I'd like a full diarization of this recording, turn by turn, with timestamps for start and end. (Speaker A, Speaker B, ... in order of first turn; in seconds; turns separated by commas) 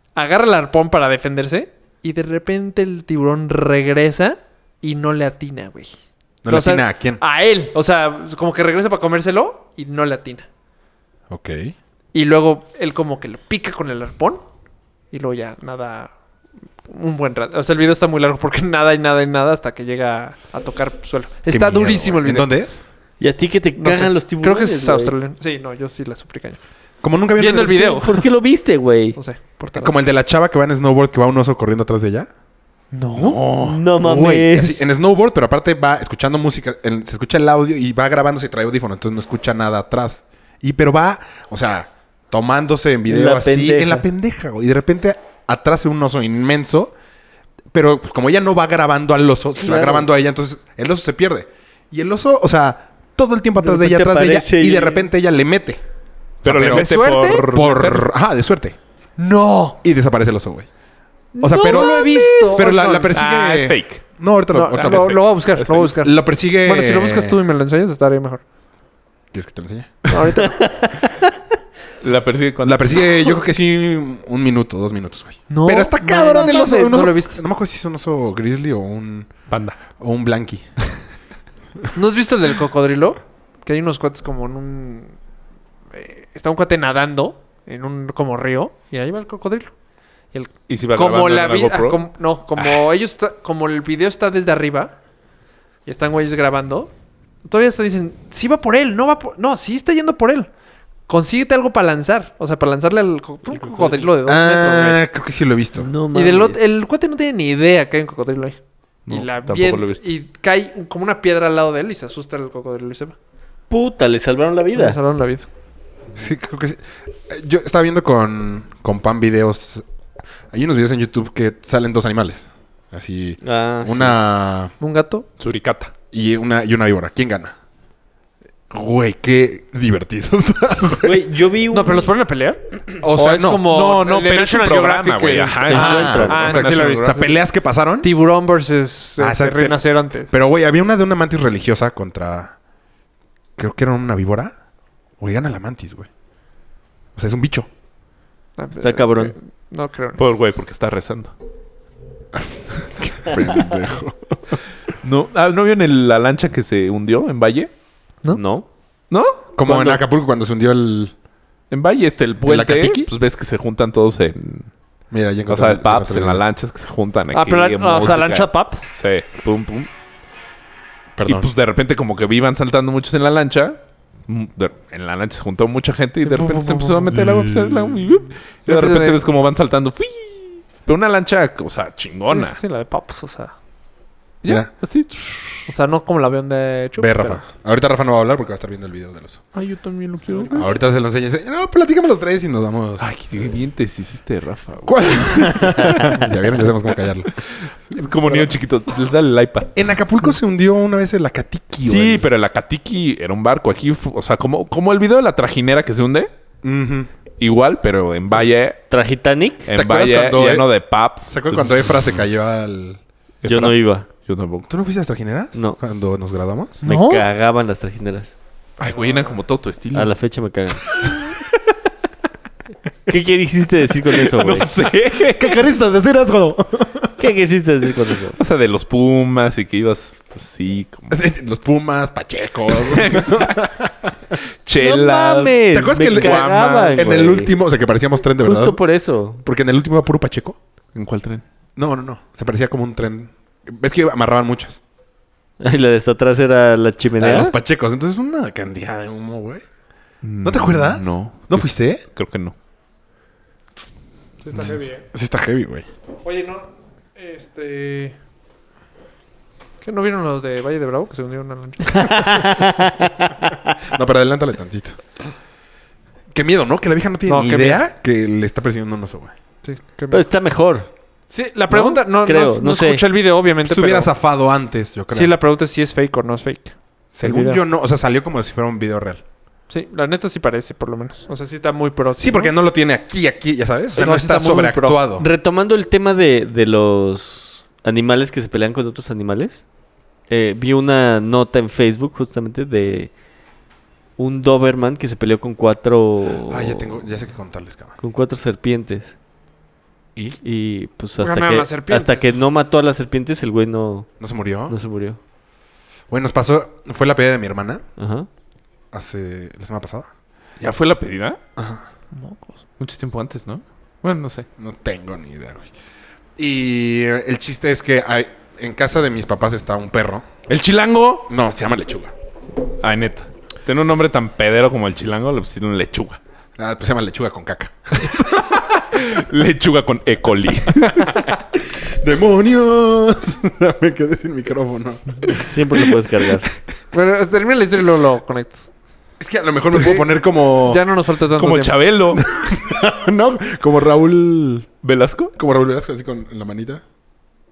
Speaker A: 0.1-5.9, Speaker B: 6.4-7.2, Speaker A: 6.5-10.5, Speaker B: 11.3-11.7, Speaker A: 12.1-14.4, Speaker A: 15.1-16.1, Speaker A: 16.9-22.5, Speaker B: 21.5-22.8, Speaker C: 23.2-25.1, Speaker A: 23.8-26.6, Speaker B: 27.0-27.9, Speaker A: 27.4-28.3, Speaker C: 27.6-29.2, Speaker A: 29.1-30.0, Speaker B: 29.7-32.3, Speaker A: 32.9-33.4, Speaker D: 33.1-33.8, Speaker C: 33.6-34.9, Speaker B: 34.0-46.9, Speaker C: 43.1-44.0, Speaker B: 47.7-55.8, Speaker C: 49.6-50.1, Speaker C: 53.6-55.1, Speaker D: 56.4-58.1, Speaker B: 56.4-58.8, Speaker A: 56.6-57.5, Speaker A: 59.2-59.8, Speaker B: 59.8-60.7, Speaker A: 61.4-63.1, Speaker B: 61.4-65.2, Speaker C: 61.6-62.6, Speaker D: 63.1-64.0, Speaker A: 64.5-68.4, Speaker D: 64.8-65.9, Speaker B: 65.8-67.4, Speaker B: 69.3-70.0, Speaker A: 70.1-70.7, Speaker C: 70.5-71.3, Speaker D: 72.0-73.1, Speaker B: 72.6-79.3, Speaker A: 75.5-77.4, Speaker D: 79.5-79.8, Speaker B: 80.0-80.7, Speaker A: 81.9-85.1, Speaker A: 85.9-89.7, Speaker A: 90.3-94.9, Speaker D: 90.7-92.0, Speaker A: 95.8-96.9, Speaker A: 97.4-100.5, Speaker A: 101.1-105.0, Speaker C: 103.5-104.0, Speaker B: 104.2-105.9, Speaker C: 105.8-106.6, Speaker A: 106.1-113.2, Speaker D: 109.1-110.0, Speaker C: 113.7-115.0, Speaker A: 114.7-115.5, Speaker B: 116.1-119.8, Speaker B: 120.5-124.7, Speaker C: 123.4-124.2, Speaker A: 124.8-125.3, Speaker D: 125.4-125.9, Speaker B: 126.1-127.5, Speaker B: 128.7-131.3, Speaker C: 131.0-132.1, Speaker A: 131.7-137.3, Speaker B: 133.0-133.7, Speaker D: 133.7-137.2, Speaker C: 135.6-136.5, Speaker B: 135.7-138.1, Speaker A: 138.0-140.3, Speaker B: 139.2-142.6, Speaker B: 143.6-144.5, Speaker B: 145.2-146.1, Speaker B: 147.2-147.7, Speaker A: 148.6-150.3, Speaker C: 148.8-149.3, Speaker D: 150.2-151.3, Speaker B: 152.4-154.6, Speaker D: 155.0-157.7, Speaker C: 158.3-158.7, Speaker D: 159.1-160.0, Speaker B: 159.6-161.1, Speaker D: 161.7-164.7, Speaker B: 162.4-163.1, Speaker B: 165.1-166.4, Speaker D: 165.5-169.9, Speaker A: 167.3-168.9, Speaker B: 171.2-171.5, Speaker D: 171.2-182.6, Speaker A: 176.2-177.2, Speaker B: 177.2-177.9, Speaker A: 178.7-179.2, Speaker A: 182.3-183.5, Speaker D: 184.4-185.7, Speaker B: 184.4-184.7, Speaker A: 185.7-187.4, Speaker B: 187.0-189.4, Speaker D: 189.5-190.7, Speaker B: 190.5-193.1, Speaker D: 193.0-196.3, Speaker B: 194.8-197.3, Speaker D: 197.4-199.7, Speaker B: 197.9-198.4, Speaker B: 199.7-202.3, Speaker D: 201.8-206.3, Speaker B: 206.6-207.1, Speaker D: 207.4-208.8, Speaker C: 208.9-209.7, Speaker D: 209.7-212.0, Speaker B: 209.7-210.7, Speaker B: 211.2-213.0, Speaker D: 213.4-214.7, Speaker C: 213.4-214.1, Speaker B: 214.7-216.8, Speaker A: 216.8-217.2, Speaker C: 216.8-218.3, Speaker D: 218.8-220.1, Speaker C: 219.9-220.8, Speaker C: 223.1-224.7, Speaker D: 224.2-225.6, Speaker B: 225.2-227.1, Speaker C: 227.2-228.4, Speaker D: 228.4-231.2, Speaker B: 231.1-234.3, Speaker D: 232.7-233.6, Speaker D: 234.7-237.2, Speaker C: 234.8-237.5, Speaker B: 235.7-238.8, Speaker C: 238.4-239.4, Speaker B: 239.4-240.6, Speaker D: 240.9-241.4, Speaker B: 241.8-244.8, Speaker C: 245.6-247.5, Speaker B: 247.2-249.6, Speaker D: 250.2-252.5, Speaker B: 250.4-252.0, Speaker A: 254.4-255.0, Speaker B: 254.5-255.9, Speaker A: 256.2-258.1, Speaker A: 259.8-262.6, Speaker C: 261.9-263.7, Speaker B: 263.8-265.0, Speaker B: 266.3-269.3, Speaker A: 267.3-267.8, Speaker A: 269.6-270.2, Speaker C: 270.1-270.9, Speaker A: 271.3-274.1, Speaker C: 271.7-273.1, Speaker B: 273.6-275.4, Speaker A: 275.1-277.6, Speaker B: 277.1-279.2, Speaker A: 279.7-282.5, Speaker B: 282.2-285.2, Speaker A: 283.9-285.0, Speaker C: 285.2-289.6, Speaker C: 290.3-293.1, Speaker C: 294.2-297.0, Speaker B: 296.5-297.9, Speaker C: 298.0-299.1, Speaker C: 300.4-304.1, Speaker A: 301.2-302.4, Speaker B: 304.2-304.7, Speaker C: 304.7-305.2, Speaker B: 306.1-307.8, Speaker C: 308.0-308.3, Speaker B: 308.9-310.1, Speaker D: 310.6-311.4, Speaker B: 311.6-311.8, Speaker A: 312.1-312.6, Speaker D: 312.8-314.5, Speaker B: 314.6-315.7, Speaker B: 316.4-320.2, Speaker D: 320.5-321.3, Speaker B: 321.3-322.1, Speaker D: 322.8-326.2, Speaker B: 326.6-328.6, Speaker D: 328.5-331.2, Speaker B: 331.2-335.4, Speaker C: 335.3-336.4, Speaker A: 336.9-338.7, Speaker B: 339.2-340.8, Speaker A: 339.7-341.8, Speaker D: 341.4-342.2, Speaker B: 342.1-344.7, Speaker D: 344.8-345.3, Speaker B: 345.4-346.8